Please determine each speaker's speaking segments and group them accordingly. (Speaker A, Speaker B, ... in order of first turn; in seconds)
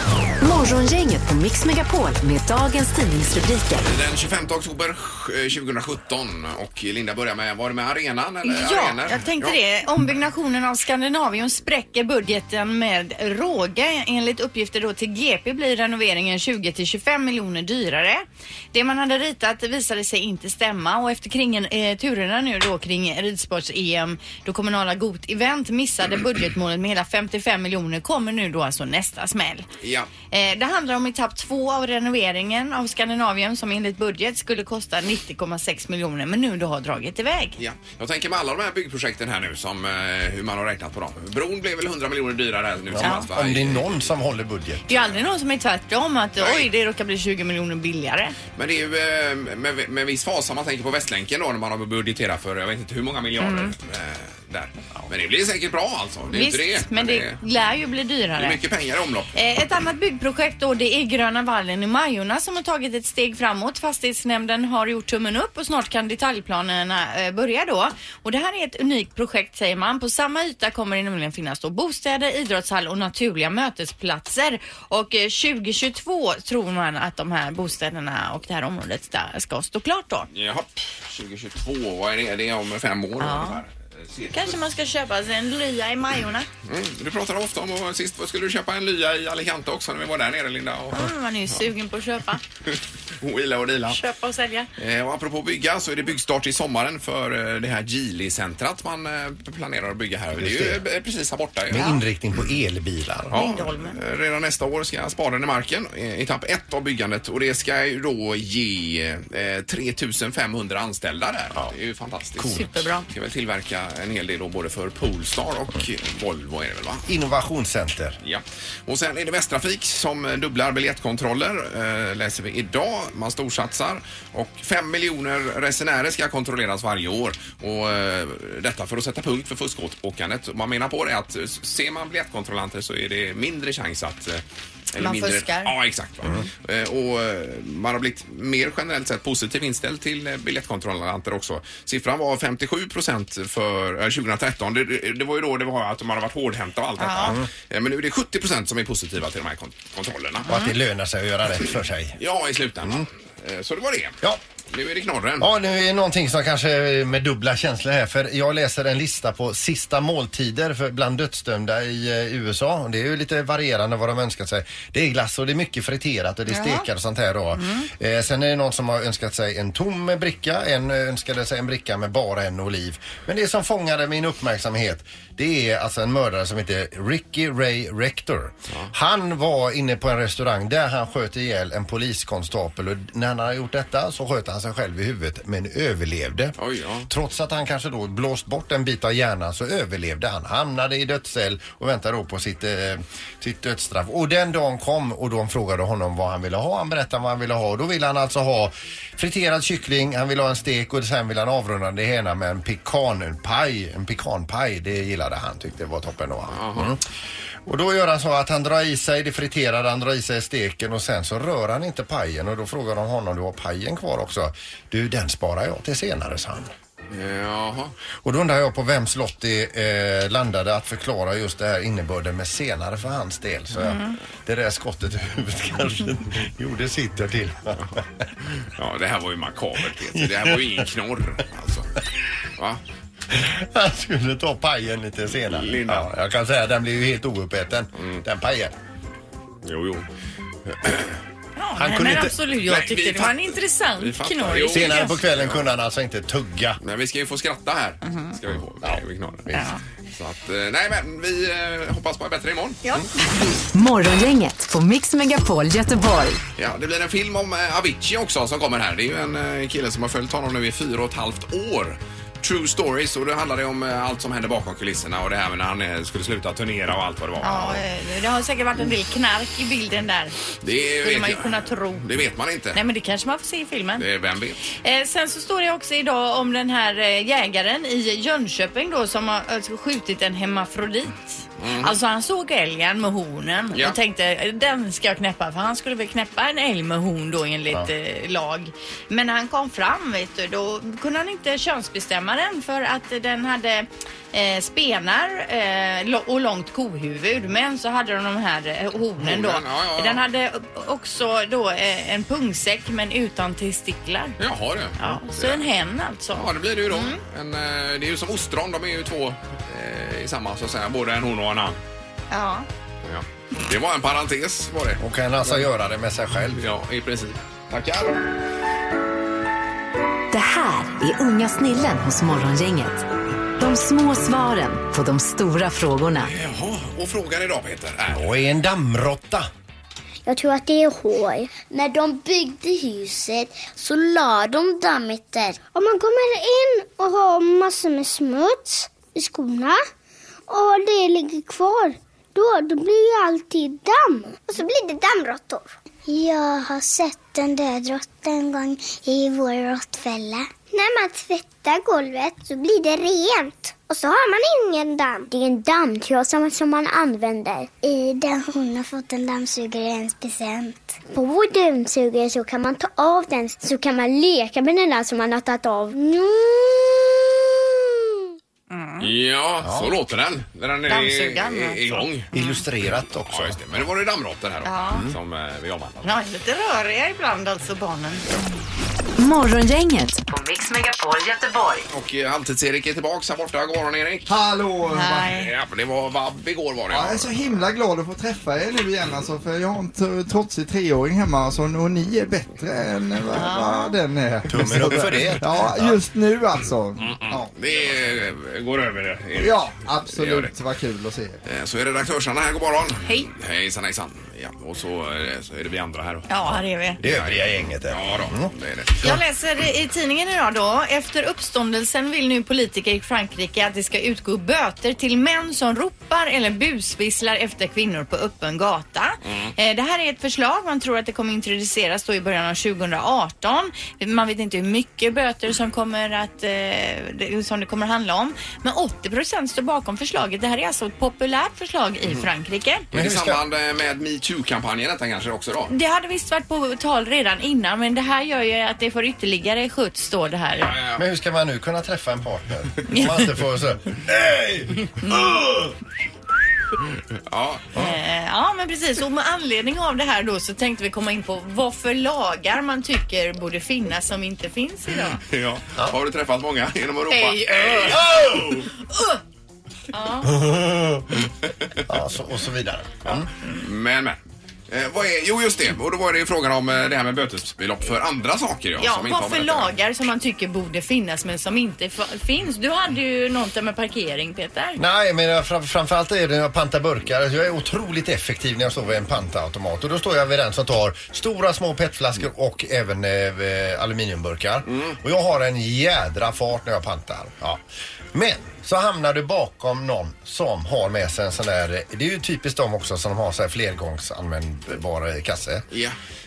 Speaker A: 0.4-3.9, 253.7-256.4, 320.3-323.1, 323.6-326.3, 379.2-381.9
Speaker B: 3.8-9.6, 29.8-30.1, 37.6-44.0, 46.4-46.7, 48.5-57.4, 58.4-59.3, 80.3-84.5, 86.6-91.1, 92.7-94.0, 94.8-102.0, 103.3-117.0, 118.2-150.5, 152.2-154.2, 154.7-155.5, 186.6-187.1, 206.5-206.9, 217.1-217.9, 228.5-231.9, 235.4-236.1, 238.0-238.2, 239.6-240.1, 240.7-241.1, 242.6-245.6, 246.8-249.5, 250.1-253.0, 256.6-267.8, 270.6-272.8, 274.0-274.6, 281.6-282.0, 299.2-300.2, 304.4-305.7, 306.3-311.8, 313.0-315.6, 316.6-318.2, 326.2-328.3, 369.0-372.3, 373.3-376.1, 381.9-384.3, 385.3-387.6, 397.0-400.5, 401.4-409.1, 419.3-419.5, 432.9-435.7, 440.6-441.0, 447.3-447.7, 455.2-458.6, 463.1-469.7, 495.7-495.9
Speaker C: 8.4-29.7, 30.3-37.5, 43.0-43.3, 44.9-48.4, 53.4-53.7, 56.3-58.6, 59.3-80.3, 83.2-83.6, 84.3-86.5, 90.9-92.4, 93.9-94.7, 103.3-104.0, 112.5-113.1, 135.0-135.7, 147.0-147.3, 166.5-166.8, 167.6-167.9, 223.8-224.2, 241.6-245.2, 248.0-248.3, 249.5-249.8, 252.8-253.1, 267.4-270.4, 271.0-272.1, 272.7-274.1, 274.7-304.4, 305.0-307.2, 312.3-312.6, 368.7-369.1, 370.9-372.6, 374.6-375.0, 376.0-378.3, 384.9-385.5, 393.3-394.0, 406.3-407.0, 409.0-432.9, 435.7-440.7, 442.9-443.3, 447.7-455.2, 457.1-458.0, 458.9-459.2, 459.9-460.3, 468.8-474.8
Speaker D: 42.9-44.9, 100.4-100.8, 101.7-103.4, 112.4-112.8, 117.1-118.2, 150.4-152.2, 155.4-186.5, 187.1-207.0, 207.7-216.7, 218.2-228.0, 230.1-230.7, 233.3-238.7, 241.8-242.3, 244.7-246.8, 315.0-316.6, 328.1-329.5, 369.6-369.9, 372.3-373.8, 394.5-396.0, 407.0-408.5, 432.9-433.4, 440.9-445.7, 457.9-458.6, 460.2-461.3, 461.9-463.3, 474.8-487.6, 488.1-495.7
Speaker E: 330.2-339.8, 340.5-367.9
Speaker F: 384.3-385.3, 386.9-397.5, 399.4-401.4